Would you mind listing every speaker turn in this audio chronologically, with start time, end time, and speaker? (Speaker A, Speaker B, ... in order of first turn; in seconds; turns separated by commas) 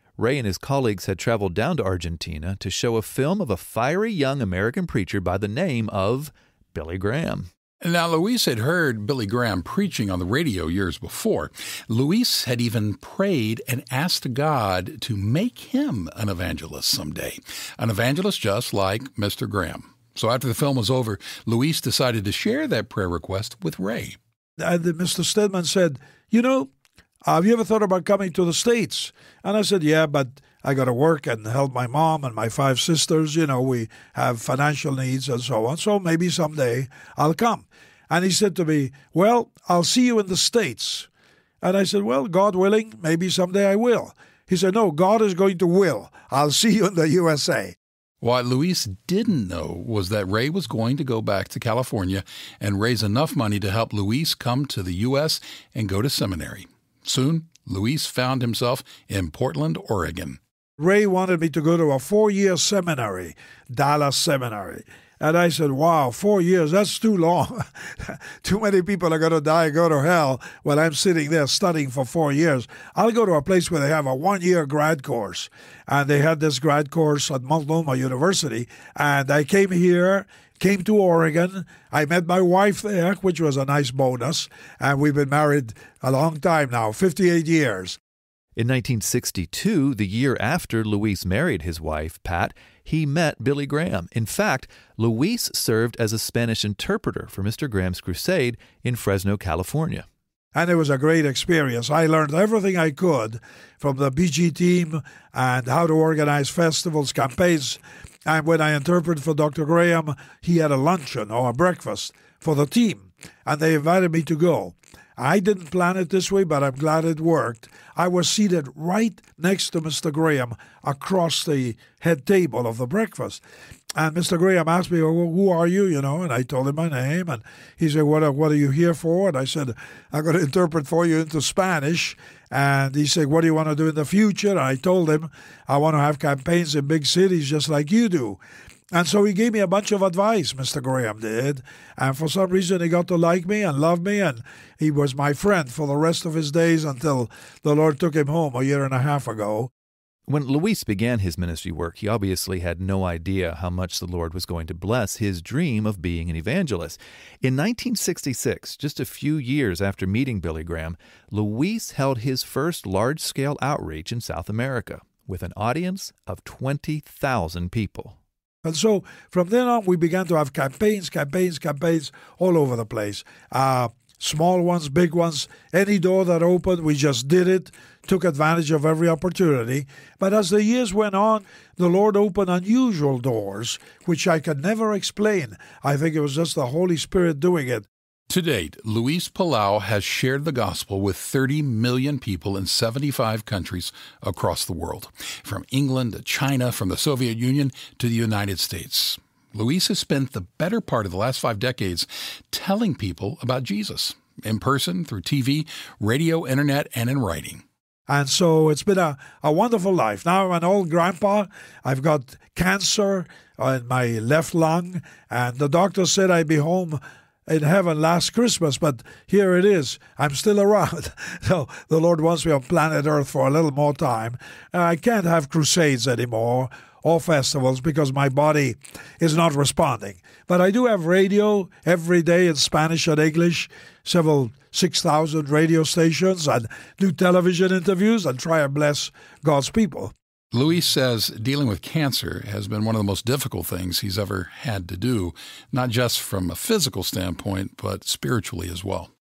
Speaker A: 0.2-7.5, Speaker B: 7.8-24.2, Speaker C: 24.6-26.7, Speaker C: 27.3-41.1, Speaker C: 41.6-47.8, Speaker B: 48.2-60.4, Speaker C: 60.8-88.0, Speaker A: 88.6-100.1, Speaker C: 100.5-123.4, Speaker C: 124.0-138.4, Speaker C: 138.9-149.7, Speaker A: 150.3-168.2, Speaker C: 168.6-187.9, Speaker B: 188.3-207.6, Speaker C: 208.1-240.1, Speaker B: 240.5-249.1